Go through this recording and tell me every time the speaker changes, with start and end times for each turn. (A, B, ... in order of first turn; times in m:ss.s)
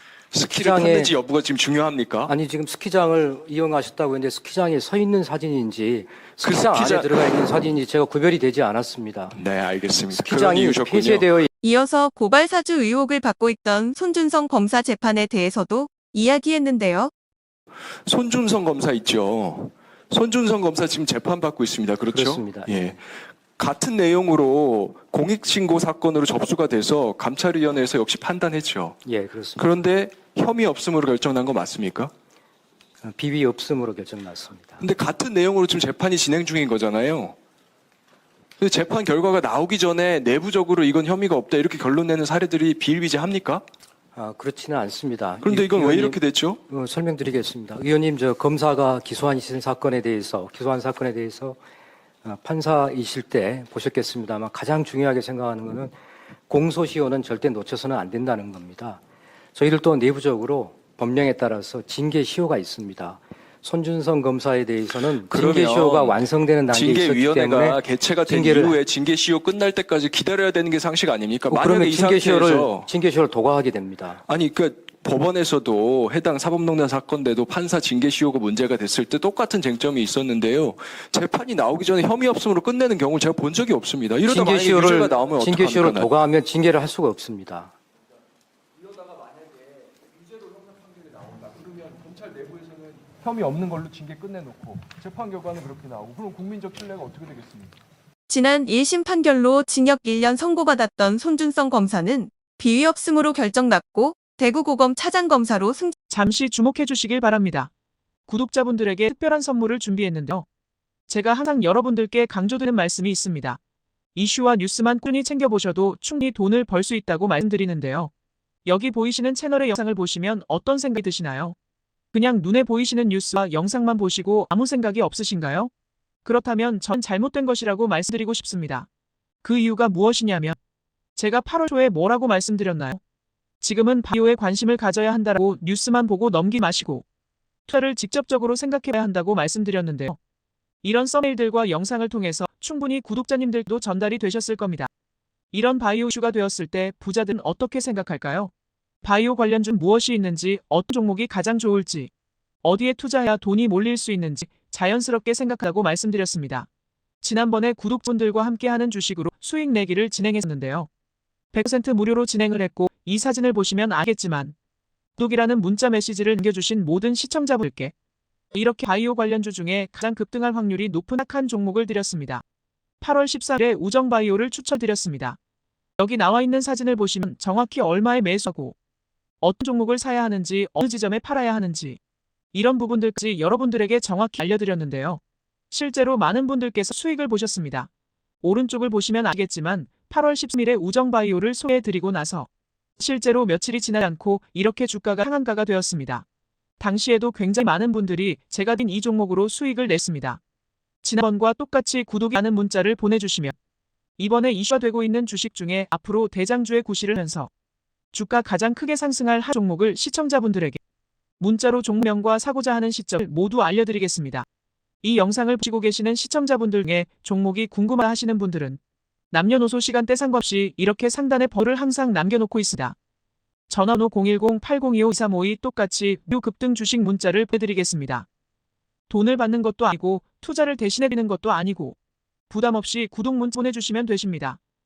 0:00.3-0:02.3 A
0:00.5-0:01.1 B
0:02.3-0:09.4 B
0:06.4-0:07.5 A
0:09.3-0:11.3 A
0:10.1-0:11.5 B
0:11.6-0:17.1 C
0:18.0-0:23.0 A
0:22.1-0:22.9 B
0:23.6-0:29.0 A
0:29.0-0:29.7 B
0:29.6-0:32.1 A
0:33.0-0:34.8 B
0:34.8-0:37.4 A
0:38.6-0:43.6 A
0:44.1-0:51.6 B
0:45.4-0:46.6 A
0:52.2-0:56.0 B
0:56.5-0:59.0 B
0:59.5-1:08.8 B
1:05.3-1:06.2 A
1:06.7-1:12.9 A
1:11.5-1:14.2 B
1:14.2-1:26.1 A
1:24.2-1:27.7 B
1:28.8-1:29.6 A
1:30.3-1:37.7 A
1:38.3-1:45.9 C
1:46.1-1:47.7 D
1:48.3-1:50.4 D
1:51.1-1:53.6 D
1:54.1-1:58.1 D
1:58.6-2:01.5 D
2:02.1-2:05.7 D
2:06.2-2:08.9 D
2:09.4-2:10.6 D
2:11.2-2:13.0 D
2:13.6-2:17.0 D
2:17.7-2:20.2 D
2:20.8-2:24.9 D
2:25.5-2:28.5 D
2:29.0-2:32.1 D
2:32.6-2:36.7 D
2:37.2-2:40.9 D
2:41.5-2:44.5 D
2:45.2-2:47.9 D
2:48.5-2:52.4 D
2:53.0-2:55.4 D
2:56.0-2:58.7 D
2:59.4-3:02.0 D
3:02.5-3:07.9 D
3:08.4-3:16.2 D
3:16.8-3:20.4 D
3:21.0-3:23.5 D
3:24.2-3:27.5 D
3:28.1-3:30.8 D
3:31.4-3:34.4 D
3:35.0-3:38.8 D
3:39.3-3:43.0 D
3:43.7-3:48.2 D
3:49.1-3:52.0 D
3:52.5-3:54.6 D